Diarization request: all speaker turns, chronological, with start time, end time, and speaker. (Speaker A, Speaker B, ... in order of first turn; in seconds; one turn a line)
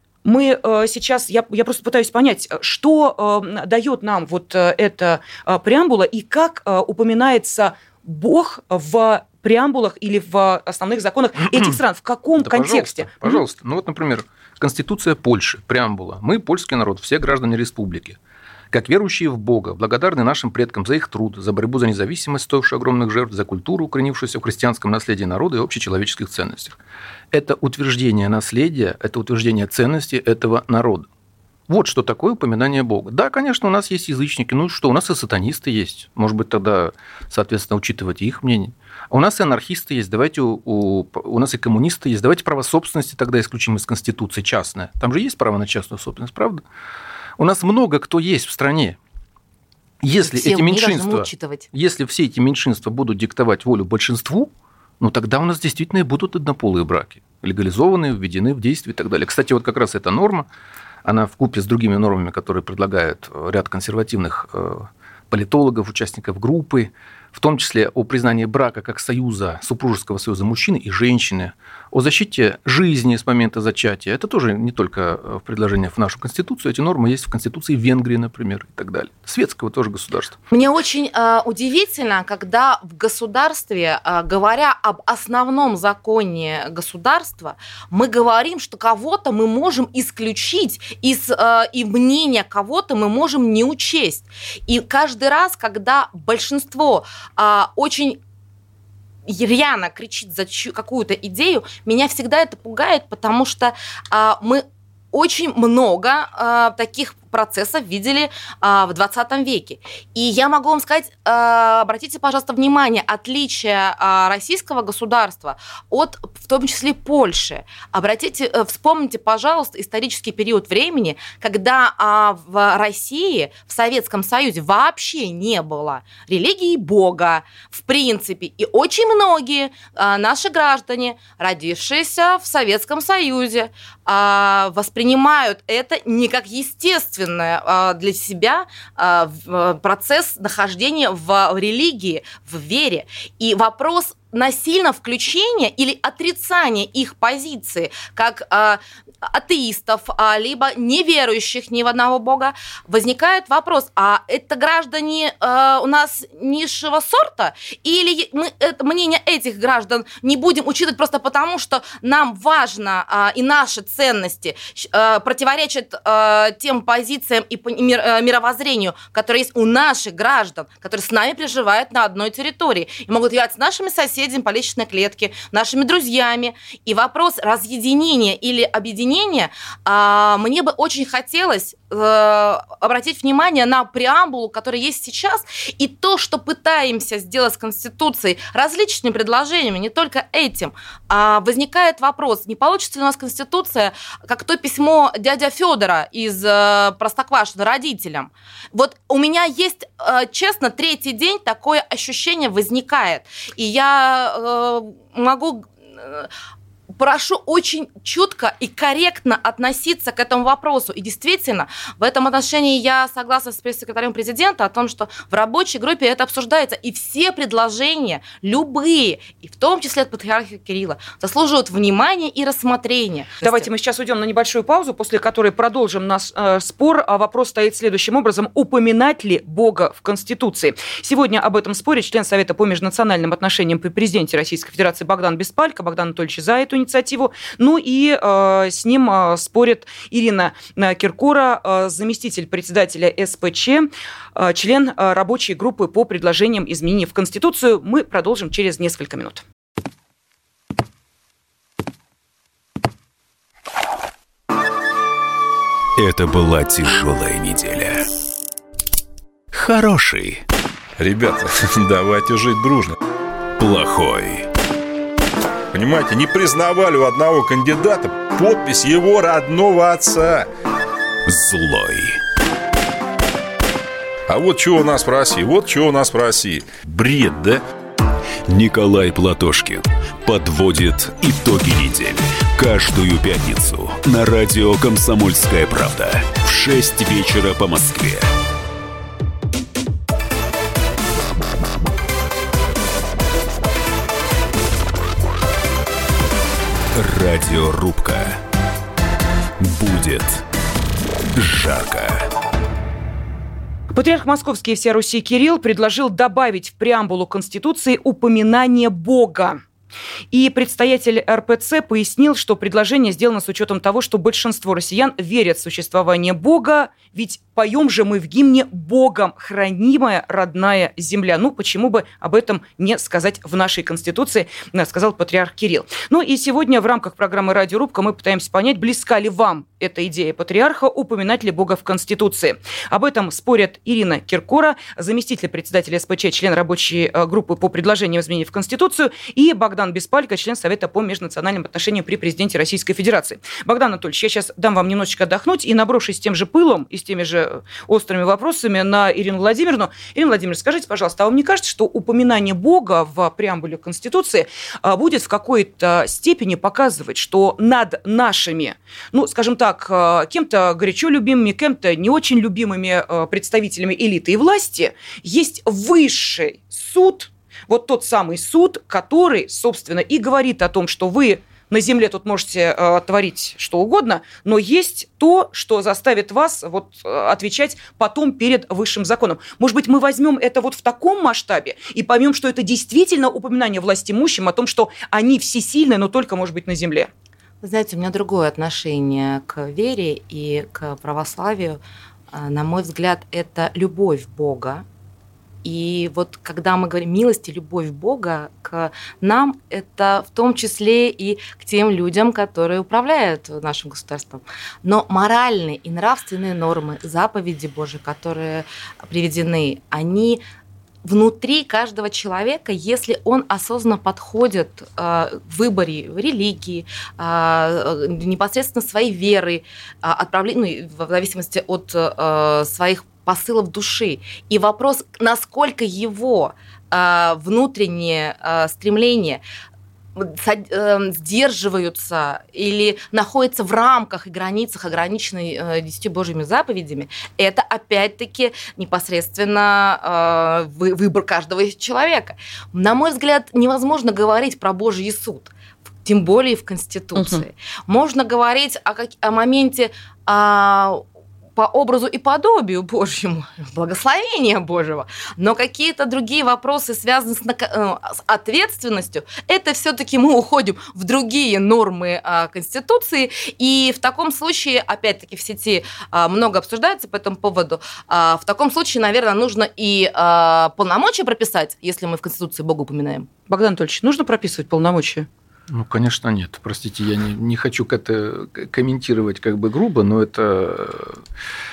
Speaker A: 0.2-13.4
Speaker B: 11.5-11.8
Speaker B: 12.4-18.2
Speaker B: 18.7-26.8
Speaker B: 27.3-31.1
Speaker B: 31.7-46.6
Speaker B: 47.4-49.0
Speaker B: 50.0-60.5
Speaker C: 50.2-51.7
Speaker B: 61.0-80.4
Speaker C: 80.5-98.2
Speaker C: 99.3-206.3
Speaker C: 207.0-223.7
Speaker A: 223.4-249.4
Speaker D: 256.0-258.0
Speaker D: 259.5-260.4
Speaker E: 261.0-262.9
Speaker D: 263.6-264.5
Speaker E: 265.7-270.5
Speaker D: 271.3-272.2
Speaker E: 274.3-277.6
Speaker D: 278.5-288.3
Speaker D: 296.9-298.4
Speaker D: 299.6-300.4
Speaker D: 301.4-302.3
Speaker A: 303.9-309.6
Speaker A: 310.3-387.1
Speaker C: 387.6-391.8
Speaker C: 392.3-394.9
Speaker C: 395.6-410.4
Speaker C: 411.1-429.4
Speaker C: 430.2-445.5
Speaker C: 446.1-451.0
Speaker A: 447.2-447.4
Speaker C: 451.6-473.3
Speaker A: 473.5-475.3
Speaker B: 475.7-481.2